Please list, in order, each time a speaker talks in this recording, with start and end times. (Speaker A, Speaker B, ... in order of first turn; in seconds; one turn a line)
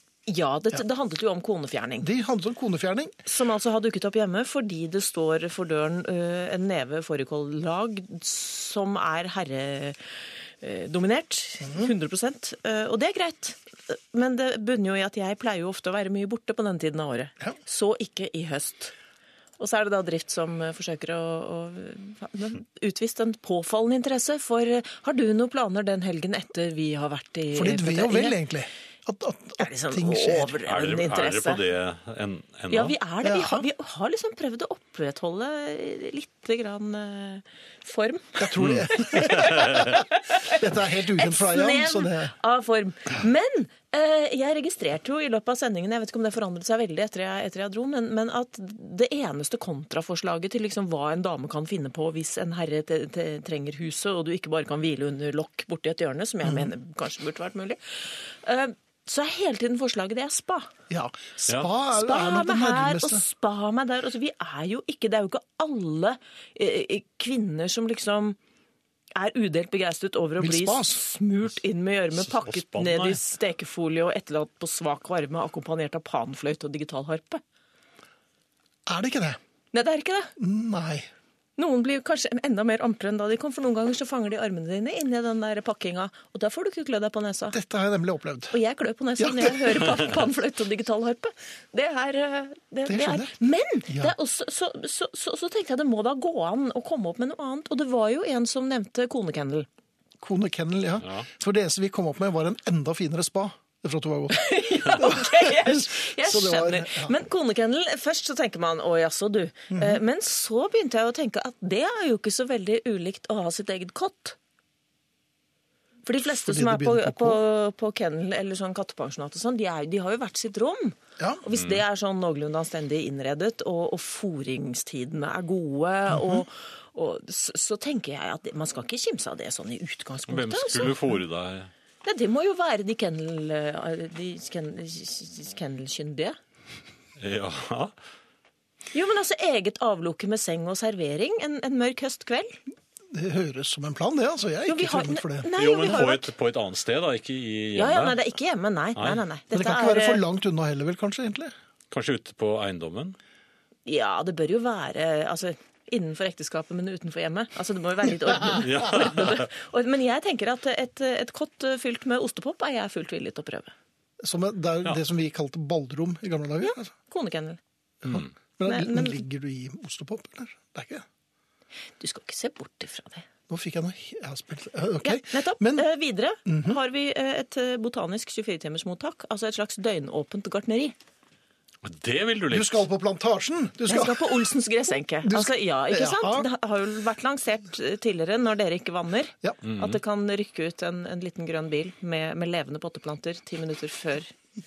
Speaker A: 0.3-2.1
Speaker B: 2.0-3.2
Speaker A: 3.3-10.0
Speaker A: 10.6-18.9
Speaker B: 11.6-11.9
Speaker A: 19.6-28.4
Speaker B: 27.5-30.5
Speaker A: 29.6-31.6
Speaker C: 30.6-33.0
Speaker A: 32.7-60.7
Speaker B: 33.2-33.7
Speaker B: 38.4-42.3
Speaker C: 38.6-39.9
Speaker B: 56.4-56.7
Speaker B: 60.9-63.2
Speaker A: 61.9-68.4
Speaker A: 69.2-77.4
Speaker B: 70.4-71.0
Speaker C: 72.1-73.2
Speaker B: 78.9-79.4
Speaker A: 79.7-80.3
Speaker B: 80.4-81.1
Speaker A: 81.6-87.6
Speaker B: 87.5-88.6
Speaker A: 88.5-99.7
Speaker B: 89.2-89.9
Speaker B: 92.9-93.3
Speaker B: 100.2-107.1
Speaker A: 104.3-114.4
Speaker B: 109.7-110.0
Speaker A: 116.1-131.0
Speaker B: 116.2-117.4
Speaker C: 121.5-121.8
Speaker B: 126.1-126.4
Speaker C: 130.3-131.7
Speaker A: 132.0-136.4
Speaker C: 137.2-137.9
Speaker A: 138.9-142.6
Speaker B: 143.1-145.5
Speaker A: 144.7-146.3
Speaker C: 145.6-148.2
Speaker A: 147.8-150.2
Speaker C: 149.0-149.2
Speaker B: 149.5-151.5
Speaker C: 151.9-153.2
Speaker A: 153.8-163.7
Speaker C: 158.5-159.5
Speaker B: 164.2-166.9
Speaker A: 166.6-167.6
Speaker B: 168.0-171.1
Speaker C: 168.1-168.3
Speaker A: 168.7-169.2
Speaker A: 172.0-173.2
Speaker B: 173.5-175.9
Speaker A: 175.0-180.9
Speaker B: 176.5-176.8
Speaker C: 181.8-182.8
Speaker B: 182.5-184.4
Speaker A: 183.9-194.3
Speaker B: 185.2-186.5
Speaker C: 189.6-190.0